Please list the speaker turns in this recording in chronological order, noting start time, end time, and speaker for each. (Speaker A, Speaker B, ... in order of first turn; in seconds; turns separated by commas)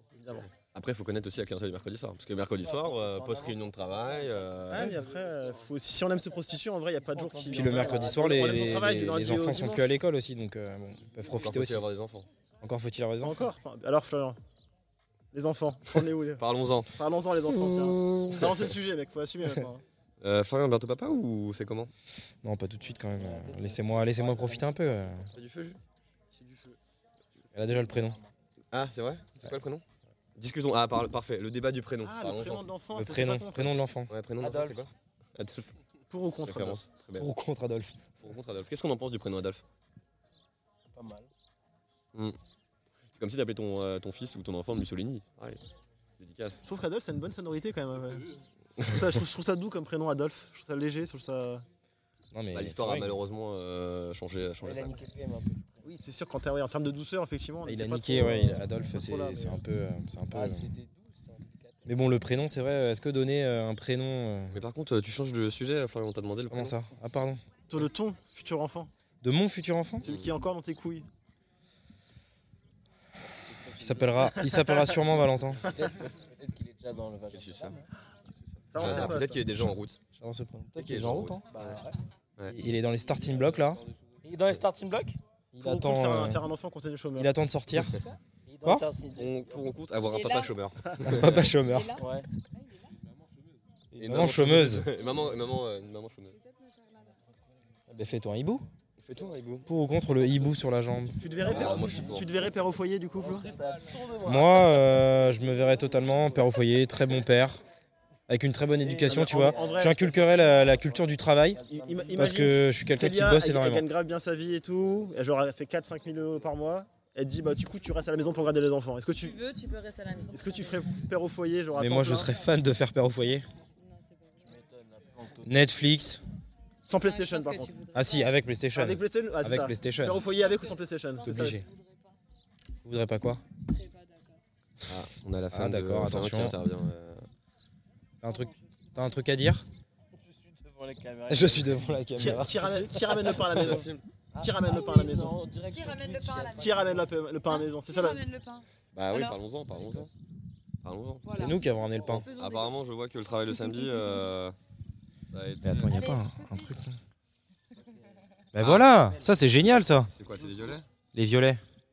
Speaker A: 0.2-0.5, Speaker B: 0.3-5.0, Speaker C: 2.6-4.3, Speaker A: 4.7-10.0, Speaker C: 7.0-8.8, Speaker D: 7.5-11.8, Speaker B: 11.2-12.3, Speaker D: 12.6-13.4, Speaker A: 13.2-14.4, Speaker A: 15.3-19.8, Speaker B: 16.4-16.9, Speaker B: 17.6-18.5, Speaker B: 20.2-21.9, Speaker D: 22.4-25.3, Speaker C: 22.8-25.2, Speaker B: 25.3-25.8, Speaker A: 26.3-26.8, Speaker D: 27.5-28.2, Speaker C: 27.6-28.3, Speaker B: 28.7-29.8, Speaker B: 30.4-32.6, Speaker A: 32.0-33.8, Speaker D: 32.9-34.1, Speaker B: 34.1-35.7, Speaker C: 34.4-34.9, Speaker A: 36.1-36.8, Speaker B: 36.4-37.3, Speaker D: 37.2-38.0, Speaker B: 38.2-39.6, Speaker C: 40.9-41.3, Speaker B: 43.1-45.6, Speaker B: 46.2-46.6, Speaker A: 46.6-51.6, Speaker D: 52.3-53.1, Speaker B: 52.5-55.0, Speaker C: 54.6-56.1, Speaker A: 55.9-59.6, Speaker D: 57.6-60.7, Speaker C: 60.3-62.0, Speaker D: 61.9-64.6, Speaker B: 64.5-66.8, Speaker D: 66.5-67.4, Speaker A: 67.7-68.9, Speaker D: 69.2-70.0, Speaker B: 70.0-70.3, Speaker A: 70.0-71.1, Speaker C: 73.5-74.3, Speaker D: 73.7-75.7, Speaker C: 75.6-77.8, Speaker B: 77.3-77.8, Speaker A: 78.7-79.4, Speaker B: 78.7-80.0, Speaker D: 80.2-81.5, Speaker B: 80.8-81.8, Speaker C: 81.5-82.0, Speaker D: 82.5-83.8, Speaker C: 84.2-85.2, Speaker D: 85.5-86.4, Speaker A: 85.6-87.3, Speaker D: 87.2-88.0, Speaker C: 88.5-89.7, Speaker B: 89.1-91.5, Speaker E: 90.1-90.5, Speaker D: 91.0-91.9, Speaker E: 91.5-92.8, Speaker C: 92.0-92.3, Speaker D: 93.9-94.9, Speaker B: 94.0-96.3, Speaker E: 96.3-97.1, Speaker D: 97.9-98.6, Speaker B: 99.0-99.7, Speaker D: 99.7-101.2, Speaker A: 101.2-103.5, Speaker C: 101.4-102.4, Speaker B: 101.4-102.5, Speaker C: 103.1-106.5, Speaker D: 104.2-107.6, Speaker D: 108.3-111.6, Speaker C: 108.8-112.4, Speaker A: 109.1-110.2, Speaker A: 111.7-119.4, Speaker D: 112.2-113.8, Speaker E: 119.2-120.8, Speaker A: 120.3-122.3, Speaker D: 121.7-123.5, Speaker E: 123.8-124.5, Speaker C: 124.4-125.6, Speaker D: 125.4-126.2, Speaker A: 126.8-127.8, Speaker E: 127.0-128.3, Speaker D: 127.9-130.2, Speaker A: 128.7-131.6, Speaker E: 130.3-132.2, Speaker D: 131.2-131.6, Speaker D: 132.8-133.4, Speaker E: 133.6-134.4, Speaker B: 134.9-137.2, Speaker D: 135.5-136.6, Speaker D: 138.2-139.6, Speaker E: 138.2-139.3, Speaker C: 140.1-142.4, Speaker D: 141.3-142.9, Speaker A: 142.2-145.4, Speaker B: 143.5-144.0, Speaker C: 144.3-147.1, Speaker E: 145.7-146.7, Speaker A: 146.6-148.2, Speaker E: 147.4-149.4, Speaker B: 148.9-150.1, Speaker C: 149.7-150.1, Speaker B: 150.8-151.2, Speaker E: 151.2-152.9, Speaker D: 151.3-152.3, Speaker B: 152.2-154.6, Speaker E: 153.5-154.1, Speaker B: 155.3-155.9, Speaker D: 155.6-157.0, Speaker E: 155.9-156.7, Speaker D: 158.5-160.1, Speaker B: 158.6-158.9, Speaker C: 158.9-159.6, Speaker B: 160.1-160.8, Speaker C: 160.3-160.7, Speaker D: 161.1-161.6